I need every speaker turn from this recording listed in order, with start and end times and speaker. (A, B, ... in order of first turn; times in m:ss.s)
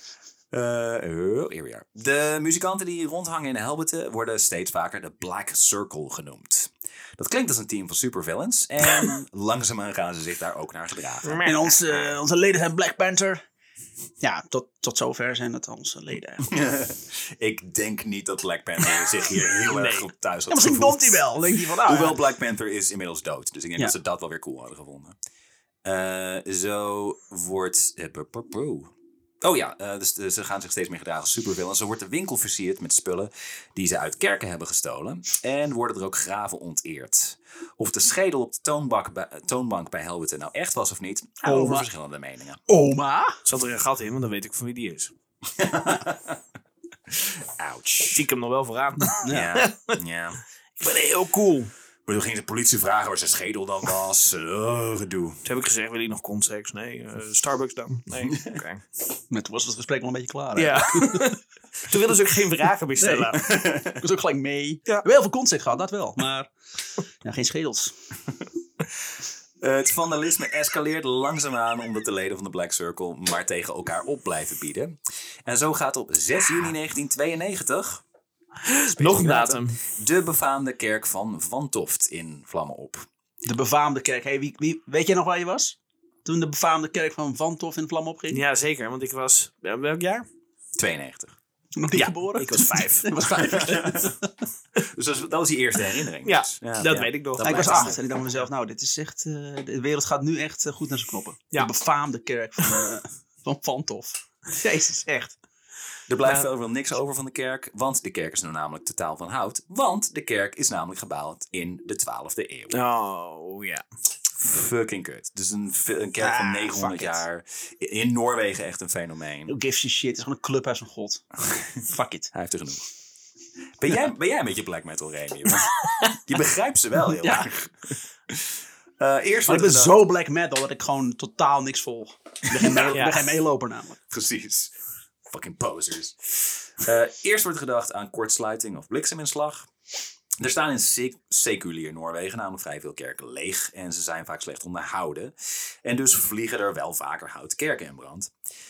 0:00.5-0:11.4 A
0:11.2-0:12.1 B
0:11.4-0:13.4 C
0:14.2-0:16.5 C
0:16.4-0:25.2 A
0:19.7-0:20.1 B
0:20.5-0:22.2 C
0:25.8-0:28.9 A
0:29.4-0:42.6 A
0:41.4-0:41.9 C
0:42.7-0:43.4 C
0:43.5-0:45.1 B
0:45.5-0:46.4 A
0:47.1-0:48.3 A
0:48.1-0:50.0 B
0:49.2-0:49.5 C
0:49.2-0:50.4 A
0:50.8-0:51.7 B
0:52.1-0:55.4 A
0:55.4-0:58.8 B
0:58.3-0:58.6 A
0:59.3-1:01.3 C
1:00.6-1:03.5 B
1:03.0-1:06.5 C
1:03.4-1:04.0 A
1:07.2-1:08.0 C
1:09.6-1:18.0 A
1:18.6-1:19.8 B
1:18.9-1:23.1 A
1:23.4-1:28.4 C
1:28.3-1:30.2 B
1:30.8-1:31.4 A
1:31.8-1:34.3 C
1:31.9-1:33.5 B
1:33.4-1:34.2 A
1:34.8-1:38.0 A
1:36.2-1:38.0 B
1:37.4-1:44.2 C
1:44.5-1:45.3 B
1:46.1-1:52.8 A
1:52.7-1:53.8 B
1:54.3-1:59.6 A
1:56.2-1:57.2 C
1:59.5-2:01.2 C
2:01.8-2:02.3 C
2:02.3-2:02.8 A
2:03.8-2:10.0 A
2:05.9-2:06.1 B
2:07.2-2:07.5 C
2:09.5-2:14.0 C
2:12.5-2:13.0 A
2:12.8-2:13.3 B
2:14.1-2:14.7 A
2:15.3-2:19.7 A
2:20.4-2:28.3 A